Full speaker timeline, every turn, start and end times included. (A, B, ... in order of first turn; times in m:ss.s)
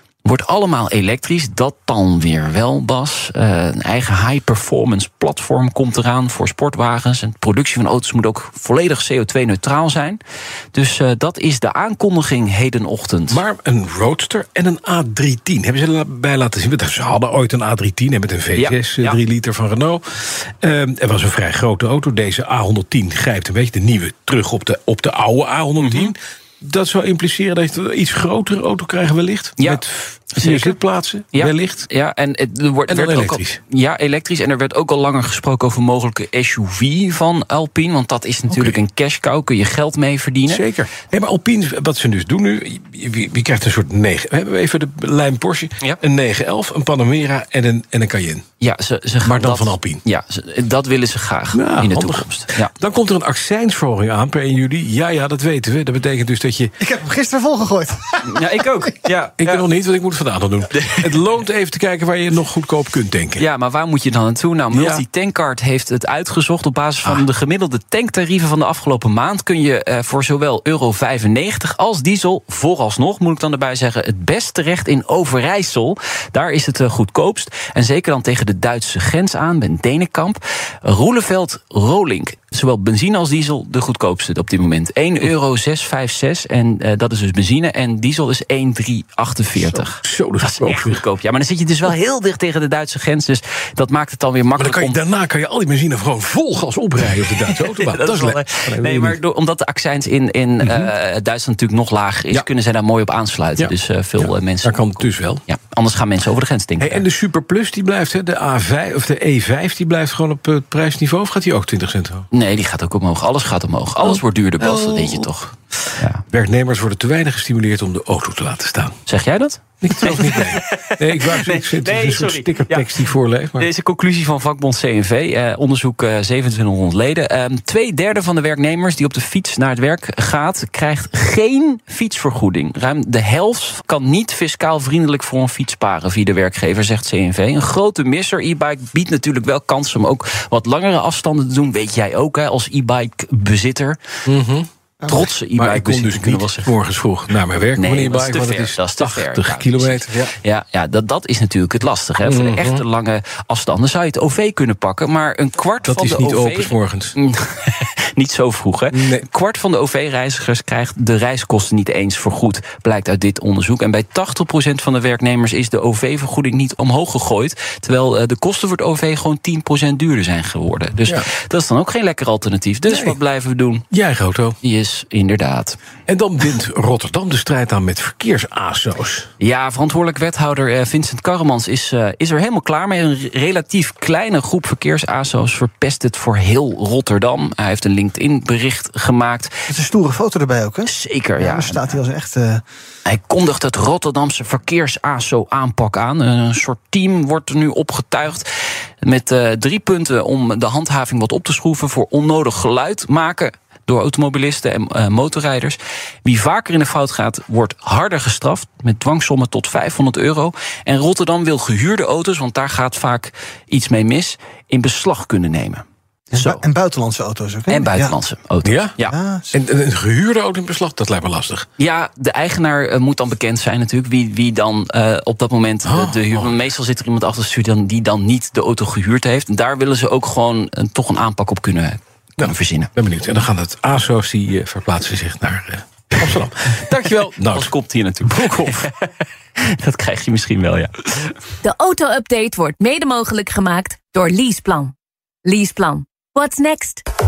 0:00.2-0:10.2 A
0:10.7-0:13.4 A
0:13.3-0:31.9 B
0:18.5-0:19.2 A
0:25.8-0:26.1 A
0:29.6-0:30.8 A
0:31.3-0:40.6 A
0:32.9-0:33.6 B
0:38.5-0:38.8 B
0:40.5-0:48.4 B
0:48.6-0:52.7 A
0:49.2-0:50.0 B
0:51.5-0:56.7 B
0:56.8-0:58.8 C
0:58.2-0:59.6 A
0:59.4-1:03.4 B
1:00.7-1:01.3 A
1:03.4-1:35.0 A
1:04.7-1:05.0 B
1:29.7-1:31.0 B
1:34.6-1:39.2 B
1:37.5-1:47.0 A
1:40.6-1:40.9 B
1:43.6-1:45.4 B
1:46.8-1:52.3 B
1:52.3-1:56.2 A
1:54.0-1:55.3 B
1:55.8-1:59.0 B
1:59.1-2:24.0 A
1:59.8-2:03.7 B
2:24.2-2:24.7 B
2:25.0-2:25.3 C
2:25.1-2:26.7 A
2:25.5-2:30.3 B
2:27.8-2:53.9 A
2:32.2-2:32.8 B
2:35.8-2:37.1 B
2:38.9-2:39.3 B
2:52.9-2:53.2 B
2:53.9-2:54.6 B
2:54.6-2:55.8 A
2:56.1-2:59.3 B
2:59.4-3:09.7 A
3:09.7-3:12.6 C
3:10.8-3:12.0 A
3:13.0-3:18.5 A
3:19.0-3:35.8 A
3:36.3-3:38.1 C
3:36.3-3:36.6 A
3:37.7-3:39.1 A
3:38.6-3:39.0 B
3:39.0-3:39.5 C
3:39.5-3:41.7 B
3:41.8-3:52.9 A
3:45.8-3:46.6 B
3:52.4-3:57.7 B
3:56.9-4:01.4 A
3:58.3-3:58.8 B
4:01.6-4:07.0 D